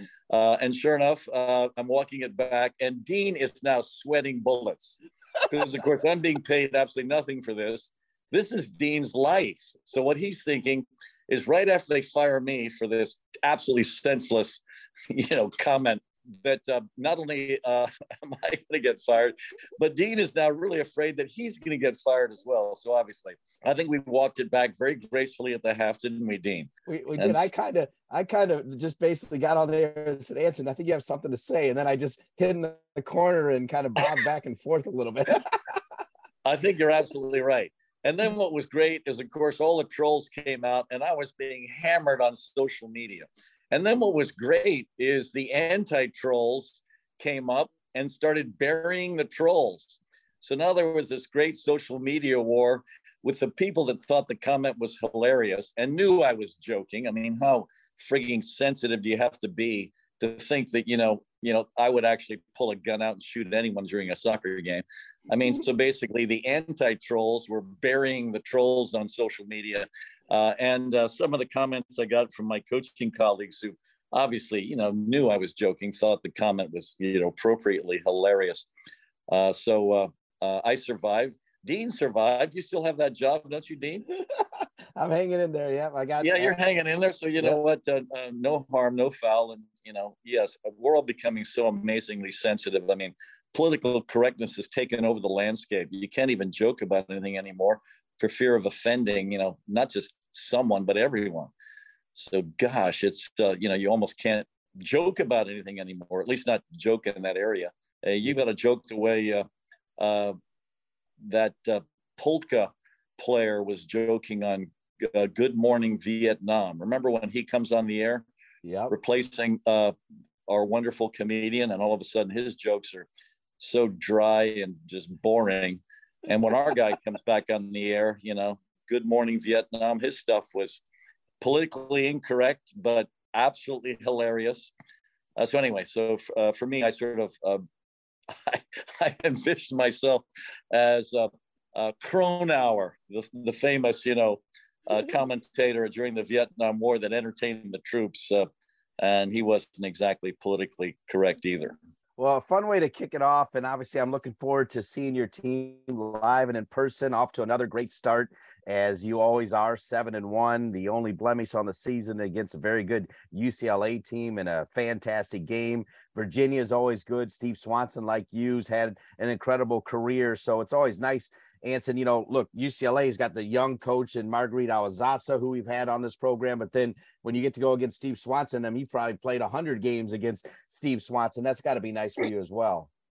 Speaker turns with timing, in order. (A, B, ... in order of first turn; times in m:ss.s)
0:00.3-0:27.4 A
0:26.9-0:35.5 B
0:36.4-1:18.7 A
1:19.3-1:24.0 A
1:25.0-1:26.6 B
1:26.2-1:41.5 A
1:42.2-1:49.5 A
1:50.0-1:50.4 A
1:51.2-1:58.3 A
1:58.6-1:58.9 B
1:58.9-2:00.0 A
2:00.5-2:03.1 A
2:03.6-2:10.8 A
2:11.4-2:14.7 A
2:15.4-2:17.6 A
2:18.3-2:28.5 A
2:29.0-2:31.8 A
2:32.2-3:02.9 B